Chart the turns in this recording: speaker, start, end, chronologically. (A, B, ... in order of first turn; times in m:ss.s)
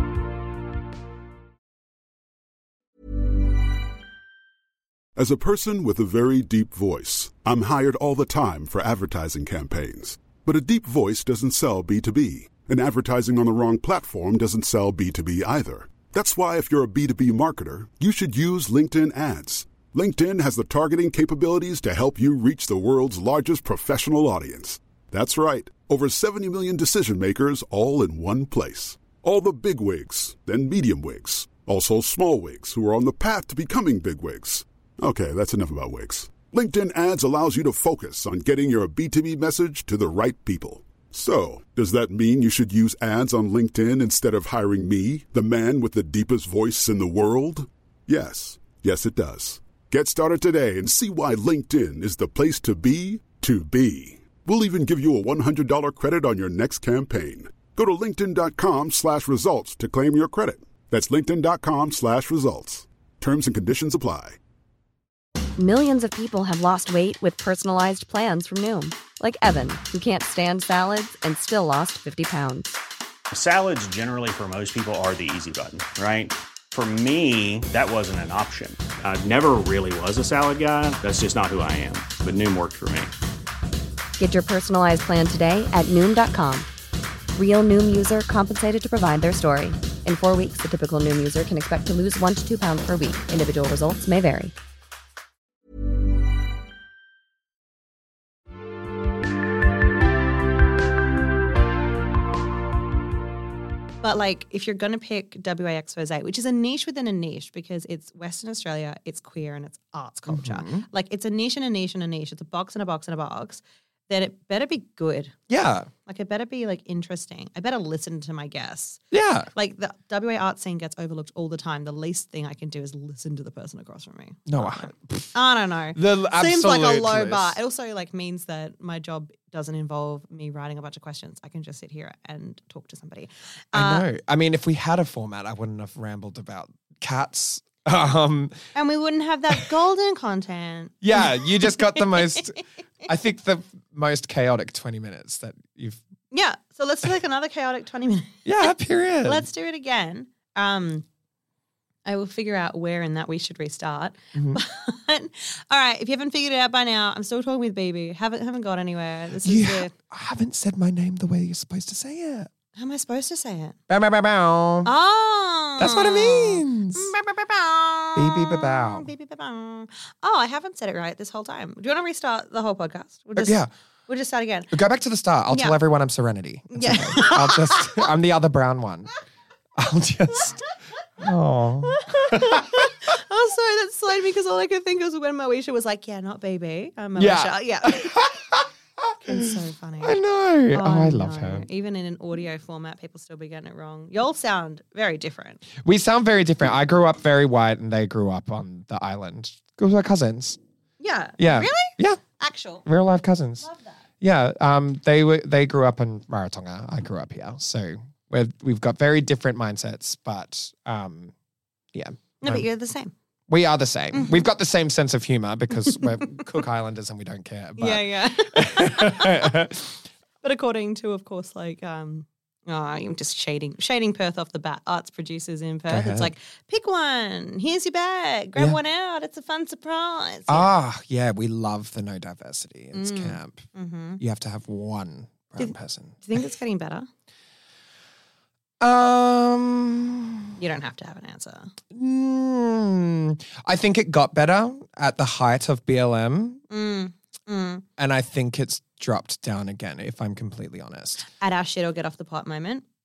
0:05.2-1:04.4 A
1:05.6-1:12.8 B
1:13.3-1:23.1 C
1:24.2-1:26.7 B
1:27.4-1:34.5 B
1:44.0-1:55.3 D
1:50.3-1:50.9 E
1:55.5-1:55.9 E
1:56.1-1:59.0 D
1:59.1-1:59.5 E
1:59.5-2:14.1 D
2:04.5-2:05.4 E
2:05.9-2:07.6 E
2:13.7-2:18.6 E
2:18.8-2:22.4 D
2:21.0-2:26.0 E
2:26.3-2:28.7 D
2:28.4-2:29.5 E
2:29.2-2:31.0 D
2:32.1-2:39.9 D
2:34.4-2:34.6 E
2:39.4-2:42.5 E
2:42.8-2:43.8 D
2:43.9-2:44.9 E
2:44.8-2:54.7 D
2:45.8-2:47.1 E
2:48.2-2:49.1 E
2:53.4-2:53.7 E
2:54.7-2:59.1 E
2:55.5-2:55.8 D
2:56.7-2:58.1 D
2:59.8-3:00.6 E
3:01.2-3:02.9 E
3:01.8-3:08.2 D
3:07.2-3:11.7 E
3:09.2-3:10.2 D
3:10.7-3:15.6 D
3:15.8-3:20.6 E
3:21.0-3:22.8 D
3:21.4-3:22.2 E
3:22.8-3:23.7 E
3:23.6-3:24.0 D
3:24.2-3:31.3 E
3:31.9-3:32.7 E
3:32.4-3:33.1 D
3:33.5-3:40.0 E
3:34.1-3:34.4 D
3:35.9-3:36.5 D
3:37.8-3:39.6 D
3:40.4-3:50.7 D
3:45.9-3:46.3 E
3:50.5-3:53.7 E
3:52.9-3:54.2 D
3:54.2-3:56.4 E
3:55.6-3:57.1 D
3:58.8-4:00.5 E
4:00.6-4:01.7 D
4:01.9-4:06.6 E
4:06.7-4:07.8 D
4:08.0-4:11.3 E
4:11.3-4:12.8 D